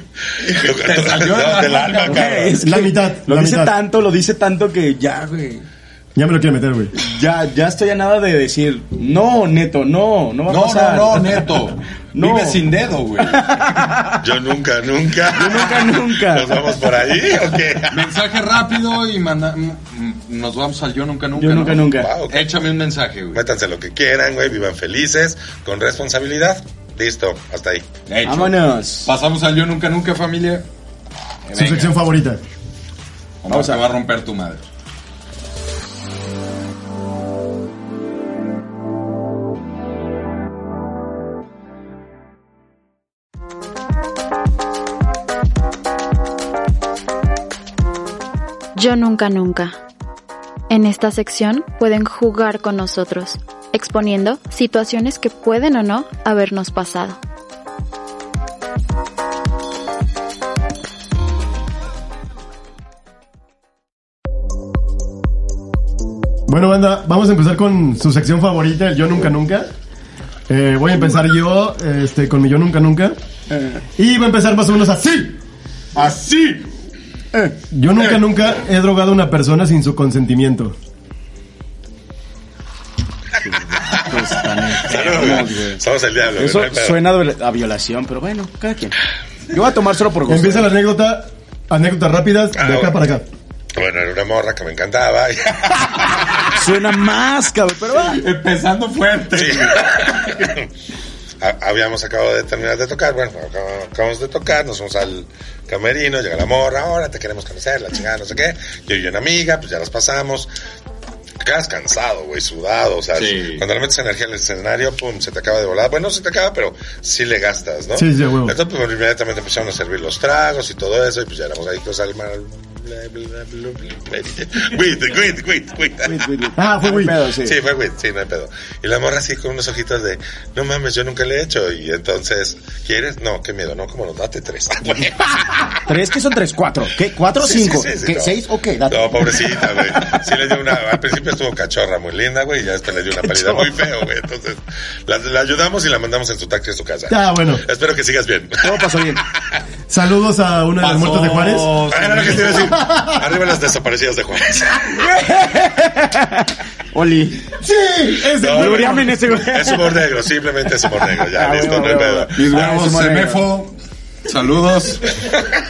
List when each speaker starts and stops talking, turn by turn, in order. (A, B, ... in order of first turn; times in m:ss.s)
0:00.4-0:02.5 A
0:00.5-0:02.6 B
0:02.0-0:05.6 C
0:02.6-0:03.8 D
0:06.1-0:06.9 D
0:07.0-0:11.4 C
0:10.5-0:13.8 A
0:12.1-0:12.7 C
0:13.3-0:14.2 C
0:14.2-0:18.1 B
0:15.3-0:16.7 C
0:17.9-0:23.4 A
0:21.4-0:22.1 C
0:21.9-0:22.6 B
0:23.3-0:27.9 B
0:28.1-0:30.6 A
0:28.2-0:29.1 C
0:31.5-0:32.0 A
0:31.5-0:32.4 D
0:33.4-0:34.6 A
0:33.5-0:33.8 C
0:48.8-0:49.8 E
0:50.7-0:57.2 E
1:06.5-1:09.7 D
1:10.5-1:13.2 D
1:13.5-1:13.8 C
1:14.0-1:15.4 D
1:15.9-1:16.7 A
1:17.7-1:20.8 D
1:23.4-1:25.8 C
1:24.7-1:27.0 B
1:25.0-1:25.5 A
1:26.4-1:29.0 C
1:29.5-1:30.7 C
1:30.3-1:33.2 D
1:32.6-1:33.0 B
1:33.8-1:36.3 B
1:36.5-1:38.2 C
1:38.0-1:40.4 A
1:39.3-1:40.6 B
1:41.4-1:50.5 B
1:51.4-2:06.2 B
1:53.1-1:53.6 A
1:57.9-1:58.6 D
2:06.0-2:07.6 C
2:06.6-2:07.2 D
2:07.4-2:15.7 B
2:15.8-2:19.5 C
2:17.4-2:29.6 B
2:23.2-2:23.7 C
2:27.1-2:27.6 D
2:28.6-2:29.2 C
2:29.9-2:31.8 D
2:30.8-2:32.7 A
2:31.9-2:35.1 B
2:32.7-2:33.0 D
2:34.9-2:37.5 C
2:37.6-2:39.0 D
2:38.1-2:40.0 C
2:38.3-2:42.3 B
2:41.3-2:43.4 C
2:42.4-2:43.7 A
2:44.2-2:45.2 A